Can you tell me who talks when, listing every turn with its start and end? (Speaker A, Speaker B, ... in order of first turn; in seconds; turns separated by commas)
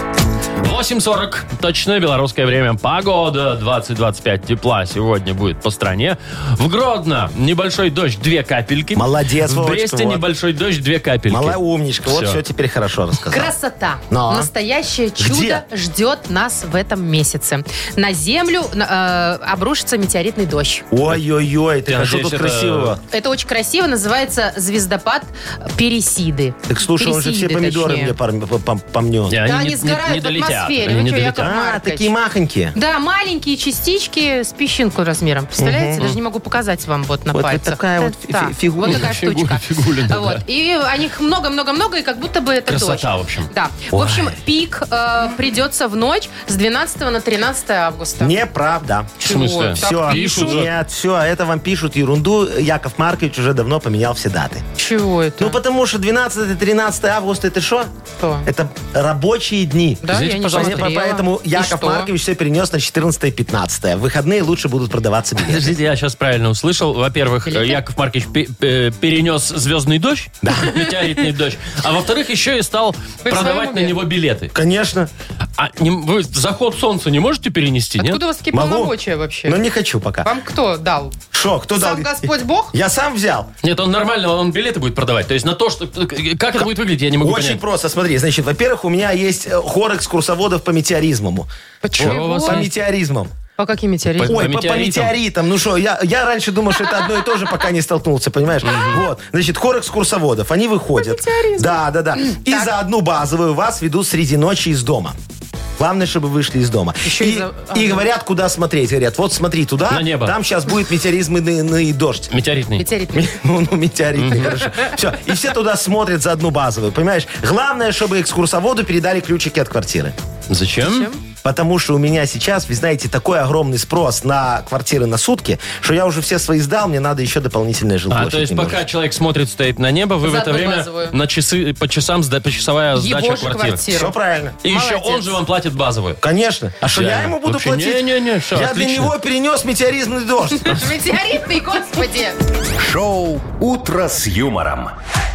Speaker A: 0.6-12.4, Speaker B: 8.9-10.2, Speaker B: 11.3-13.5, Speaker C: 13.3-20.9, Speaker B: 14.1-14.5, Speaker B: 15.2-15.6, Speaker B: 20.9-23.0, Speaker A: 21.9-22.9, Speaker C: 23.1-28.1, Speaker B: 26.7-29.4, Speaker A: 29.3-31.5, Speaker C: 29.4-32.1, Speaker B: 31.3-32.8, Speaker C: 32.7-48.4, Speaker B: 35.6-36.0, Speaker B: 37.3-39.1, Speaker A: 38.9-40.4, Speaker A: 42.7-43.5, Speaker B: 43.9-44.4, Speaker B: 48.2-49.2, Speaker C: 49.2-50.6, Speaker A: 49.2-50.7, Speaker B: 49.7-54.6, Speaker C: 54.8-55.6, Speaker B: 55.4-57.9, Speaker C: 58.2-58.5, Speaker B: 58.5-65.7, Speaker C: 60.0-62.1, Speaker A: 60.1-60.9, Speaker A: 65.5-74.5, Speaker C: 67.5-67.8, Speaker B: 70.4-70.8, Speaker C: 73.2-74.0, Speaker B: 74.5-75.1, Speaker A: 75.6-78.2, Speaker C: 78.0-79.6, Speaker B: 78.5-80.3, Speaker C: 80.2-81.2, Speaker B: 81.3-83.5, Speaker C: 81.7-82.7, Speaker A: 83.6-87.6, Speaker B: 87.2-93.3, Speaker C: 91.8-92.6, Speaker A: 92.0-92.7, Speaker C: 93.6-94.4, Speaker A: 94.2-95.1, Speaker B: 94.2-105.2, Speaker A: 98.7-99.0, Speaker C: 101.0-102.7, Speaker B: 105.8-112.3, Speaker C: 107.0-108.1, Speaker A: 109.9-110.3, Speaker A: 112.3-112.8, Speaker C: 112.8-113.4, Speaker B: 113.1-120.1, Speaker A: 114.2-114.6, Speaker A: 120.5-121.1, Speaker C: 120.8-121.2, Speaker B: 121.4-128.8, Speaker A: 128.1-133.9, Speaker C: 130.2-131.1, Speaker C: 132.9-135.4, Speaker B: 133.9-134.6, Speaker A: 134.6-136.2, Speaker B: 136.2-140.8, Speaker A: 136.9-139.1, Speaker C: 140.6-142.4, Speaker D: 142.8-144.9